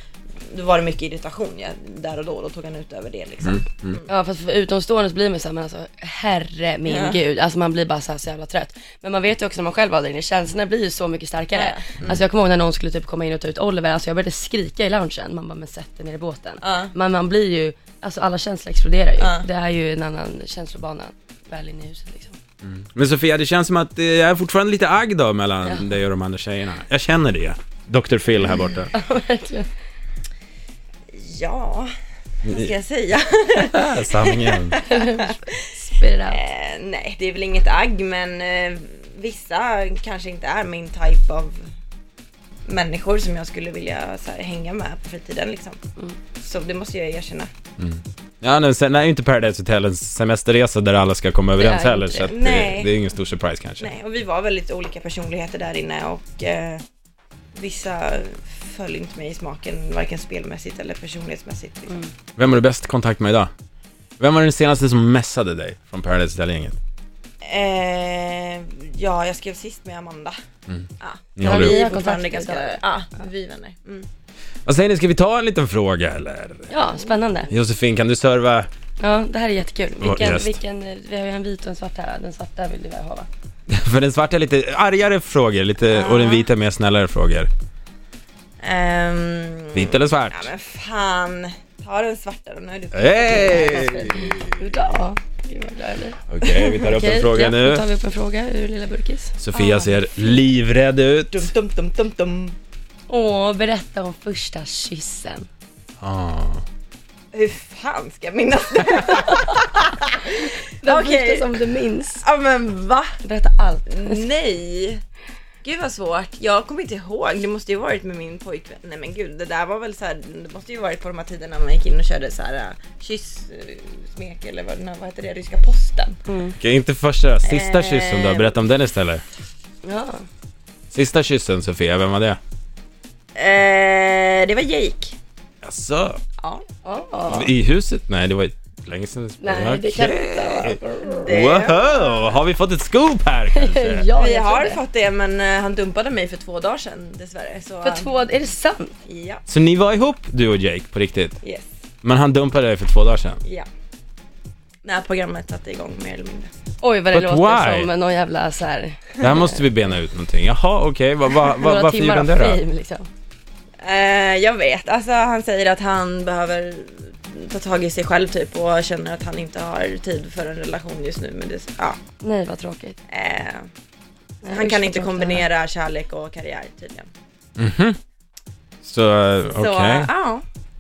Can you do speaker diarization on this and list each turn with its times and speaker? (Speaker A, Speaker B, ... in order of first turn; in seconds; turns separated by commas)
Speaker A: 0.4-4.1, Speaker B: 3.5-4.0, Speaker C: 4.1-22.4, Speaker A: 6.9-7.2, Speaker A: 11.5-12.2, Speaker A: 16.6-16.9, Speaker A: 19.2-19.5, Speaker B: 22.6-28.9, Speaker C: 25.6-25.9, Speaker C: 28.9-29.7, Speaker A: 31.1-31.9, Speaker B: 32.5-32.7, Speaker A: 32.5-35.6, Speaker B: 33.6-34.8, Speaker C: 34.9-36.4, Speaker A: 36.3-41.6, Speaker A: 42.7-45.8, Speaker A: 46.4-47.5, Speaker B: 47.8-53.9, Speaker C: 51.6-52.3, Speaker A: 52.2-52.9, Speaker A: 53.8-56.8, Speaker A: 57.6-62.0, Speaker B: 62.4-63.5, Speaker B: 64.2-66.8, Speaker A: 67.5-70.4, Speaker B: 70.7-71.8, Speaker A: 71.0-74.1, Speaker C: 71.4-72.8, Speaker B: 74.7-76.8, Speaker C: 76.7-77.5, Speaker B: 77.5-78.7, Speaker C: 79.0-83.3, Speaker B: 80.0-80.6, Speaker B: 83.7-87.5, Speaker A: 85.9-86.5, Speaker A: 88.6-94.3, Speaker B: 89.7-90.5, Speaker B: 92.9-94.6, Speaker C: 93.3-99.9, Speaker B: 96.3-97.9, Speaker B: 99.4-101.5, Speaker A: 101.3-102.6, Speaker C: 103.1-105.5, Speaker B: 106.0-106.6, Speaker A: 107.3-111.7, Speaker C: 110.8-112.2, Speaker A: 112.2-113.2, Speaker C: 113.2-114.2, Speaker A: 113.9-115.0, Speaker A: 115.6-126.2, Speaker C: 126.3-126.6, Speaker B: 126.6-129.2, Speaker A: 127.4-128.6, Speaker C: 129.8-130.2, Speaker B: 130.9-132.4, Speaker A: 133.4-135.2, Speaker B: 135.6-136.2, Speaker C: 136.8-137.5, Speaker B: 137.3-144.1, Speaker C: 139.4-141.3, Speaker A: 141.0-142.2, Speaker C: 143.5-144.8, Speaker A: 144.1-148.1, Speaker C: 147.8-148.9, Speaker A: 149.1-149.4, Speaker B: 149.5-151.4, Speaker A: 151.4-151.7, Speaker B: 152.0-153.4, Speaker A: 154.8-156.5, Speaker C: 156.8-159.6, Speaker B: 157.1-157.9, Speaker B: 159.2-162.6, Speaker C: 161.4-163.1, Speaker A: 163.8-172.0, Speaker C: 172.2-173.0, Speaker A: 173.1-173.7, Speaker C: 174.4-175.5, Speaker A: 174.5-177.1, Speaker B: 177.6-178.0, Speaker B: 178.8-180.1, Speaker A: 179.6-180.4